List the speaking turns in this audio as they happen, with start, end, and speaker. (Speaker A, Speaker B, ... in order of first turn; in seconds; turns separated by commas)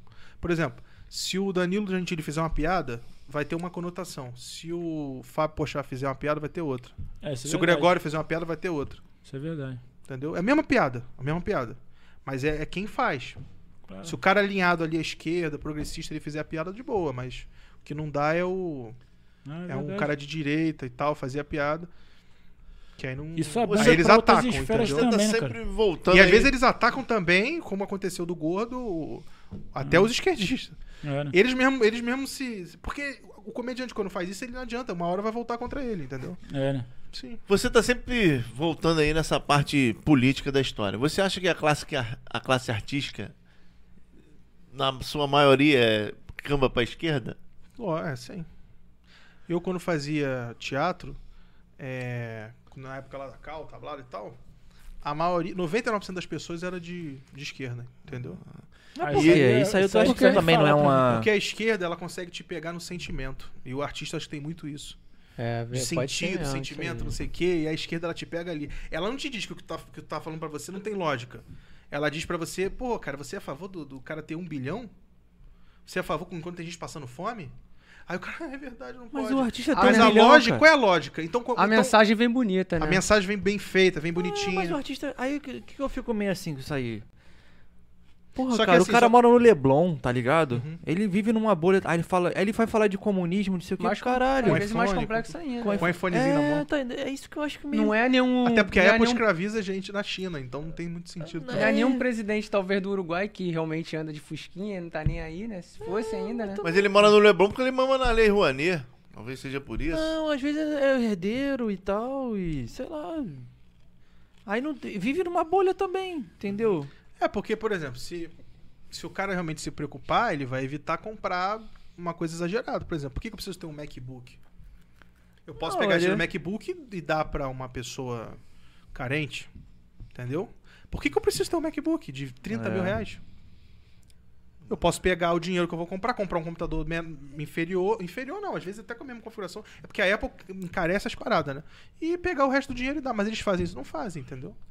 Speaker A: 0.4-9.0, Speaker B: 7.2-8.0, Speaker B: 9.2-9.8, Speaker A: 10.1-13.4, Speaker B: 13.9-14.2, Speaker A: 14.1-19.0, Speaker B: 19.5-20.1, Speaker A: 19.7-21.9, Speaker A: 23.0-25.1, Speaker B: 23.4-25.6, Speaker C: 23.6-24.1, Speaker C: 24.8-26.5, Speaker A: 26.1-30.8, Speaker B: 29.8-30.1, Speaker B: 31.0-31.4, Speaker A: 31.3-36.4, Speaker B: 36.5-36.9, Speaker A: 37.1-37.4, Speaker C: 37.5-43.3, Speaker C: 44.7-47.4, Speaker A: 47.8-48.5, Speaker A: 49.5-51.2, Speaker A: 51.8-54.4, Speaker A: 55.0-58.4, Speaker D: 59.0-61.3, Speaker B: 59.0-61.2, Speaker A: 60.0-65.0, Speaker E: 65.4-67.2, Speaker A: 65.7-74.9, Speaker A: 75.9-77.5, Speaker A: 78.1-82.0, Speaker D: 79.1-80.7, Speaker E: 79.8-80.3, Speaker E: 81.6-83.0, Speaker A: 82.8-84.8, Speaker D: 84.2-87.0, Speaker D: 88.3-94.7, Speaker A: 88.5-89.1, Speaker A: 90.5-90.8, Speaker E: 93.8-95.9, Speaker A: 94.4-96.7, Speaker D: 95.6-98.4, Speaker E: 97.7-99.2, Speaker A: 98.4-101.8, Speaker D: 101.2-102.0, Speaker E: 101.5-106.6, Speaker D: 105.8-107.1, Speaker C: 106.6-110.1, Speaker D: 109.9-113.5, Speaker D: 114.5-116.9, Speaker A: 117.2-118.3, Speaker A: 118.9-124.4, Speaker A: 125.5-128.4, Speaker D: 125.6-126.3, Speaker A: 128.9-129.5, Speaker A: 130.1-133.2, Speaker D: 132.5-133.0, Speaker A: 134.7-144.6